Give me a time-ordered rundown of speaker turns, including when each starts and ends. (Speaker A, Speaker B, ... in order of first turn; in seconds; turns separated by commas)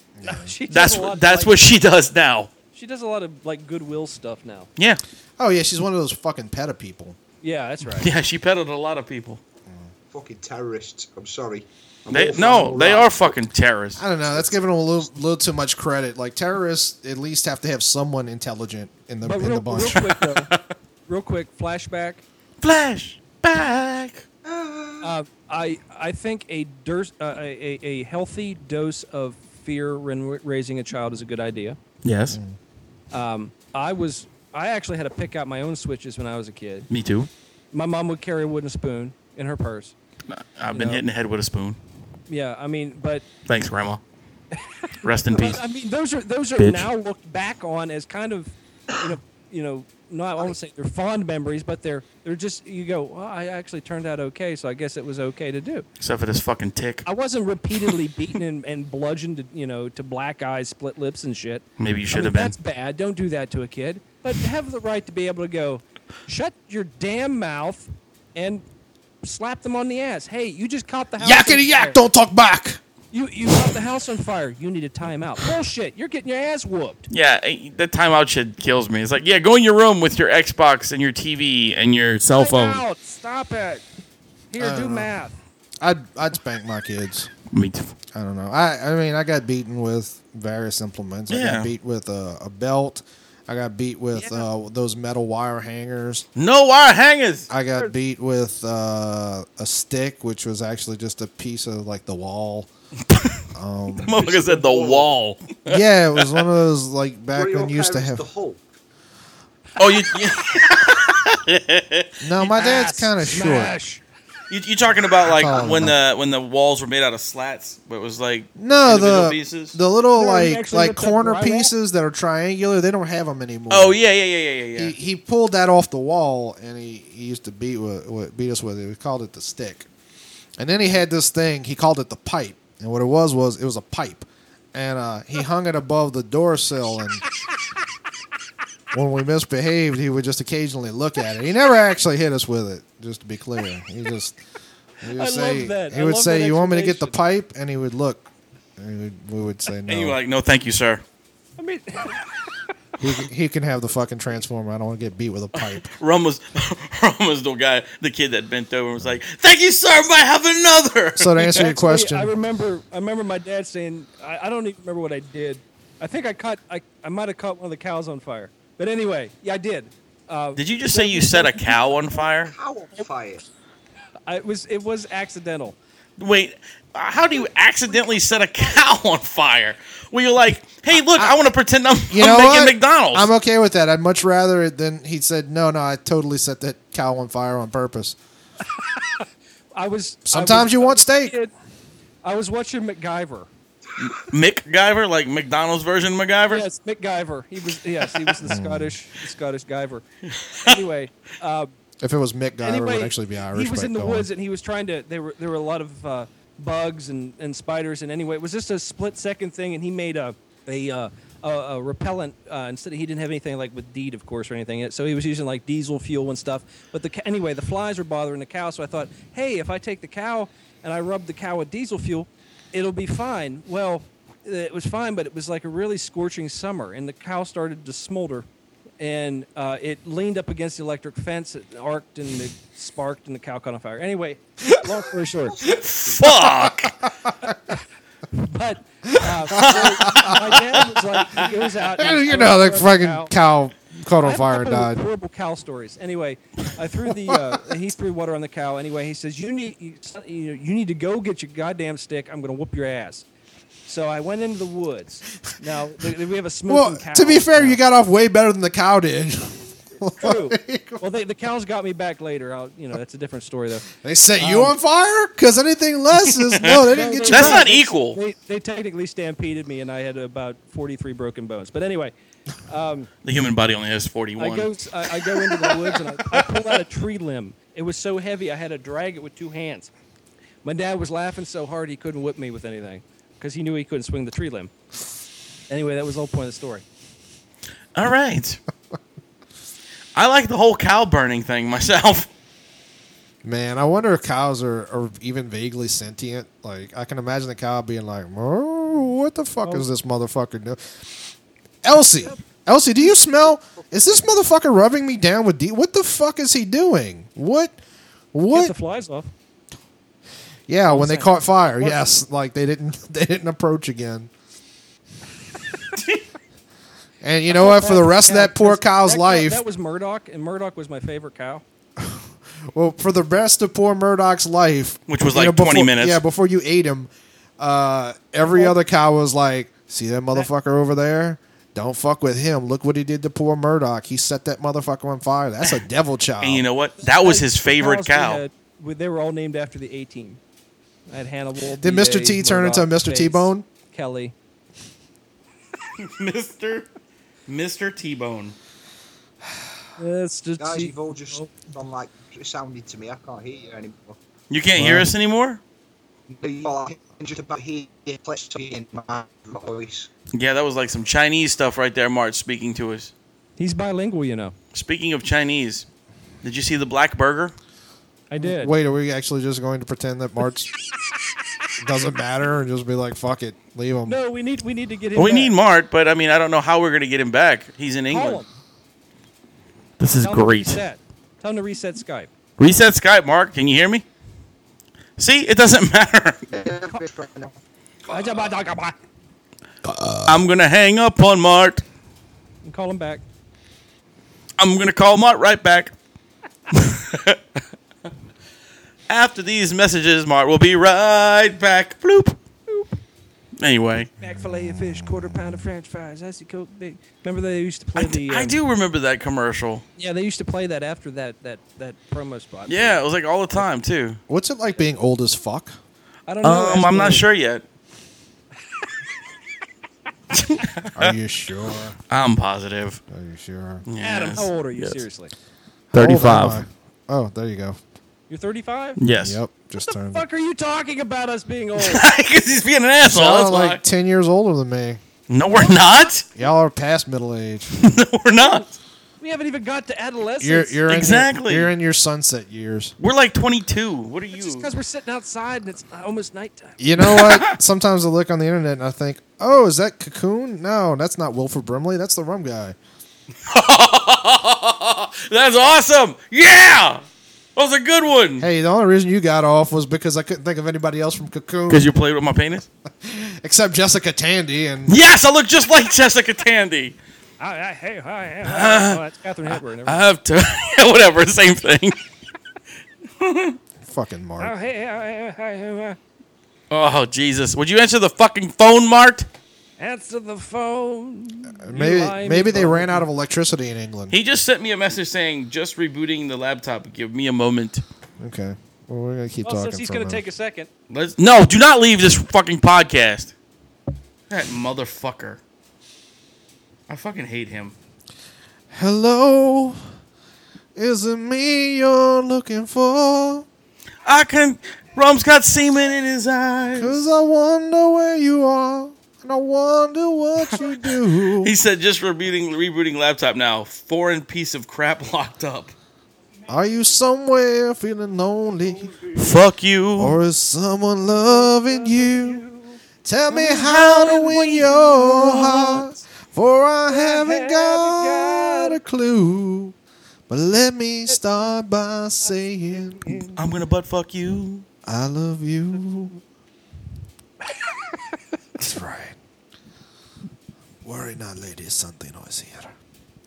Speaker A: 0.1-0.5, Speaker B: 0.2-1.6, Speaker C: 0.7-2.5, Speaker B: 2.7-4.7, Speaker A: 5.4-7.2, Speaker B: 7.4-8.1, Speaker C: 8.0-9.4, Speaker D: 10.1-13.3, Speaker C: 12.1-14.0, Speaker A: 14.0-20.0, Speaker B: 19.2-20.5, Speaker C: 19.9-20.7, Speaker B: 21.1-22.2, Speaker C: 22.6-24.2, Speaker D: 24.4-25.1, Speaker B: 25.0-31.8, Speaker C: 32.0-32.4, Speaker A: 32.3-32.6, Speaker B: 33.1-36.9, Speaker C: 36.9-37.3, Speaker B: 37.7-39.9, Speaker C: 40.3-41.8, Speaker B: 40.7-41.0, Speaker B: 42.3-43.2, Speaker C: 43.5-44.0, Speaker C: 45.0-45.6, Speaker B: 45.3-55.9, Speaker C: 46.6-46.9, Speaker C: 56.0-57.0, Speaker B: 57.0-68.6, Speaker C: 61.8-62.5, Speaker B: 69.2-72.0, Speaker A: 71.2-72.8, Speaker B: 73.1-77.1, Speaker C: 77.1-82.8, Speaker B: 82.3-83.8, Speaker B: 84.5-85.4, Speaker A: 84.6-85.1, Speaker A: 85.8-87.3, Speaker C: 87.5-87.9, Speaker A: 88.1-96.2, Speaker C: 91.3-91.7, Speaker B: 94.1-94.4, Speaker C: 96.4-97.5, Speaker A: 97.5-102.7, Speaker C: 103.1-103.4, Speaker A: 103.5-104.2, Speaker C: 104.0-106.4, Speaker D: 104.2-105.1, Speaker A: 105.7-108.2, Speaker D: 107.3-108.6, Speaker C: 109.8-112.1, Speaker A: 112.2-113.7, Speaker B: 112.5-114.0, Speaker C: 114.5-119.8, Speaker A: 115.3-116.0, Speaker A: 118.6-124.0, Speaker B: 120.1-121.7, Speaker C: 123.7-124.9, Speaker A: 124.8-129.9, Speaker A: 130.6-137.2, Speaker A: 138.9-144.4, Speaker A: 145.0-150.2, Speaker B: 145.1-147.2, Speaker C: 149.9-151.0, Speaker B: 151.6-152.7, Speaker A: 153.0-155.9, Speaker C: 155.6-161.4, Speaker A: 161.2-162.3, Speaker B: 161.5-172.0, Speaker C: 170.6-172.5, Speaker D: 172.4-173.4, Speaker B: 174.3-175.8, Speaker C: 176.2-183.3, Speaker B: 177.3-178.8, Speaker A: 182.1-188.2, Speaker B: 188.7-191.5, Speaker A: 190.2-191.3, Speaker B: 192.2-193.5, Speaker C: 194.0-196.6, Speaker B: 196.5-200.0, Speaker A: 198.4-198.9, Speaker C: 200.4-200.8, Speaker B: 200.6-201.7, Speaker A: 202.0-204.3, Speaker B: 202.6-228.5, Speaker B: 229.0-235.6, Speaker C: 235.6-237.0, Speaker A: 236.5-237.5, Speaker B: 237.4-237.8, Speaker B: 238.3-243.3, Speaker A: 239.1-240.6, Speaker C: 239.6-240.3, Speaker A: 241.9-245.0, Speaker B: 244.2-253.2, Speaker A: 247.2-247.6, Speaker B: 253.9-257.8, Speaker A: 256.7-261.0, Speaker B: 260.2-264.7, Speaker A: 264.0-267.7, Speaker C: 266.4-268.2, Speaker B: 266.9-272.1, Speaker B: 272.7-273.1, Speaker C: 273.2-276.4, Speaker B: 274.4-279.9, Speaker B: 280.6-284.7, Speaker B: 285.7-286.8, Speaker C: 287.9-288.6, Speaker C: 290.1-292.3, Speaker A: 293.4-300.8, Speaker A: 301.8-307.8, Speaker D: 303.6-304.1, Speaker A: 308.3-308.7, Speaker B: 308.5-309.3, Speaker A: 310.7-314.3, Speaker B: 310.8-312.1, Speaker A: 317.2-319.6, Speaker B: 317.5-321.6, Speaker A: 322.0-336.6, Speaker C: 325.1-326.2, Speaker B: 328.4-328.8, Speaker C: 336.4-338.4, Speaker B: 337.0-340.4, Speaker B: 341.1-344.3, Speaker A: 341.8-343.6, Speaker C: 346.0-346.9, Speaker C: 347.5-348.6, Speaker B: 350.0-351.5, Speaker D: 350.6-354.2, Speaker C: 354.5-355.6, Speaker A: 354.8-355.1, Speaker D: 356.3-360.1, Speaker C: 360.3-363.1, Speaker B: 363.6-364.5, Speaker C: 364.7-365.9, Speaker C: 366.4-367.5, Speaker B: 368.3-368.7, Speaker A: 368.4-370.7, Speaker A: 371.8-374.2, Speaker B: 374.1-375.5, Speaker C: 375.1-378.4, Speaker B: 378.1-378.5, Speaker C: 380.0-380.8, Speaker B: 380.2-382.3, Speaker C: 382.6-384.0, Speaker C: 385.2-386.5, Speaker D: 386.5-387.6, Speaker B: 388.1-388.9, Speaker A: 389.8-390.4, Speaker C: 390.2-391.8, Speaker B: 392.6-393.2, Speaker C: 394.6-395.9, Speaker C: 396.7-397.4, Speaker C: 399.1-402.4, Speaker B: 402.7-402.9, Speaker C: 403.6-404.1, Speaker B: 404.2-408.6, Speaker A: 404.2-405.6, Speaker C: 407.9-409.8, Speaker B: 410.0-413.0, Speaker C: 412.7-414.2, Speaker A: 414.3-415.8, Speaker B: 416.3-417.2, Speaker C: 416.4-417.6, Speaker C: 420.3-421.1, Speaker A: 420.9-421.9, Speaker C: 422.1-423.0, Speaker A: 423.1-423.8, Speaker C: 423.9-425.0, Speaker B: 424.0-425.3, Speaker C: 425.9-426.6, Speaker A: 425.9-427.8, Speaker B: 428.3-429.0, Speaker C: 429.0-429.4, Speaker A: 429.1-430.2, Speaker B: 429.9-432.0, Speaker C: 431.8-433.8, Speaker A: 433.0-435.0, Speaker C: 435.3-436.3, Speaker A: 436.4-437.8, Speaker C: 437.8-438.8, Speaker B: 439.2-440.8, Speaker A: 440.4-442.9, Speaker C: 440.9-441.7, Speaker C: 443.0-444.7, Speaker B: 444.3-446.8, Speaker A: 446.8-452.8, Speaker C: 447.0-447.5, Speaker C: 453.5-457.0, Speaker C: 457.6-458.5, Speaker A: 458.4-461.9, Speaker C: 461.7-462.7, Speaker A: 463.0-465.0, Speaker C: 464.9-466.9, Speaker B: 467.4-470.0, Speaker C: 468.4-472.0, Speaker C: 473.2-473.6, Speaker A: 473.8-474.6, Speaker B: 474.4-476.0, Speaker C: 476.7-479.3, Speaker B: 479.8-483.1, Speaker A: 481.6-484.1, Speaker C: 484.1-487.8, Speaker A: 488.2-490.2, Speaker B: 489.4-490.7, Speaker C: 490.9-493.3, Speaker C: 494.3-495.4, Speaker C: 496.9-497.7, Speaker A: 498.7-499.8, Speaker A: 500.8-503.4, Speaker C: 504.1-507.1, Speaker A: 506.7-511.5, Speaker C: 511.4-515.7, Speaker A: 516.5-519.0, Speaker C: 519.1-520.2, Speaker A: 520.0-522.4, Speaker B: 521.1-522.8, Speaker A: 523.0-529.7, Speaker C: 523.3-525.6, Speaker B: 526.9-528.8, Speaker A: 530.3-533.2, Speaker B: 532.7-533.4, Speaker C: 533.4-534.6, Speaker A: 534.9-536.2, Speaker A: 538.6-539.2, Speaker A: 540.8-542.7